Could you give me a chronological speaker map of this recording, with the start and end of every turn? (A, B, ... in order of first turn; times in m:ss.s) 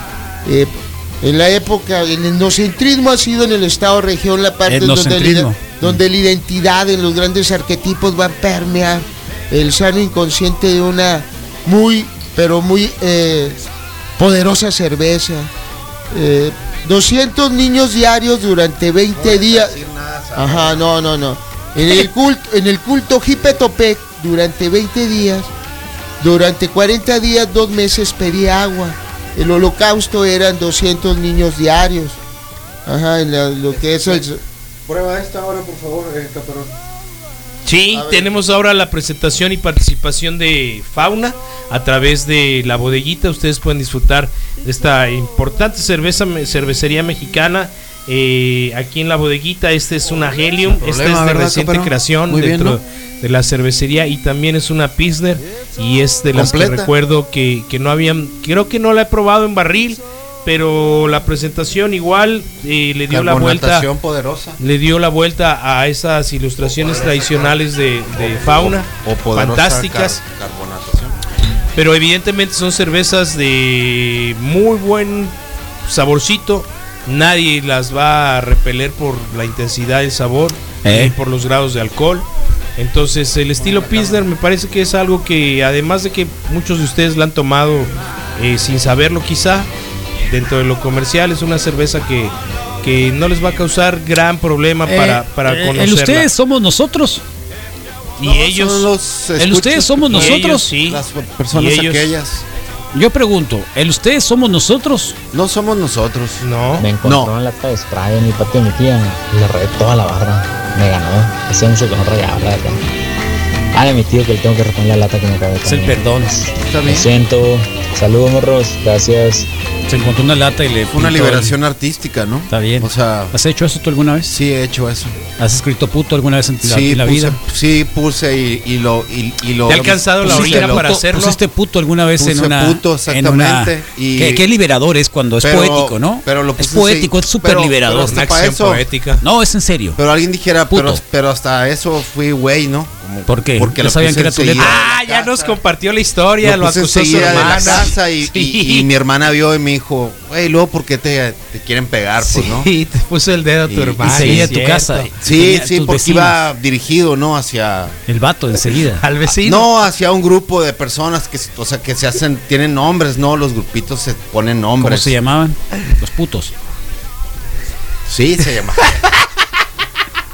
0:00.4-0:13.6 A
0:04.7-0:05.9 B
0:14.2-0:15.5 A
0:16.1-0:19.8 A
0:19.1-0:20.8 C
0:20.4-0:25.5 A
0:26.2-0:32.2 A
0:32.9-0:34.4 A
0:33.7-0:34.2 C
0:34.9-0:36.7 C
0:37.6-1:03.9 D
0:37.9-0:38.2 A
0:50.7-0:52.8 C
0:56.3-0:56.9 C
1:03.1-1:04.6 C
1:04.6-1:10.2 D
1:06.6-1:11.2 C
1:11.8-1:15.4 D
1:15.9-1:29.7 D
1:20.8-1:21.1 B
1:23.6-1:24.3 C
1:30.3-1:36.3 D
1:34.9-1:37.2 B
1:38.2-1:38.9 D
1:38.2-1:42.4 C
1:39.4-1:40.7 B
1:40.1-1:42.2 D
1:42.9-1:45.2 B
1:45.3-1:46.5 C
1:46.4-1:46.9 D
1:46.8-1:52.8 E
1:47.0-1:47.3 C
1:53.7-1:59.5 E
1:55.6-1:56.4 B
1:56.6-1:57.1 C
1:59.9-2:01.6 B
2:00.9-2:03.3 C
2:02.5-2:04.3 B
2:04.3-2:05.2 C
2:05.4-2:07.4 B
2:06.6-2:10.9 C
2:09.7-2:11.4 D
2:09.7-2:18.2 B
2:12.2-2:14.4 C
2:15.4-2:18.8 C
2:17.9-2:19.2 D
2:19.2-2:20.0 B
2:20.0-2:25.6 C
2:20.7-2:21.0 B
2:23.3-2:24.8 B
2:24.6-2:28.9 D
2:26.4-2:32.7 C
2:27.2-2:27.8 B
2:32.2-2:35.1 D
2:33.7-2:34.5 C
2:34.0-2:36.4 B
2:35.2-2:38.0 C
2:38.1-2:39.1 B
2:39.0-2:39.7 D
2:39.4-2:45.2 C
2:44.8-2:46.5 B
2:48.1-2:49.2 C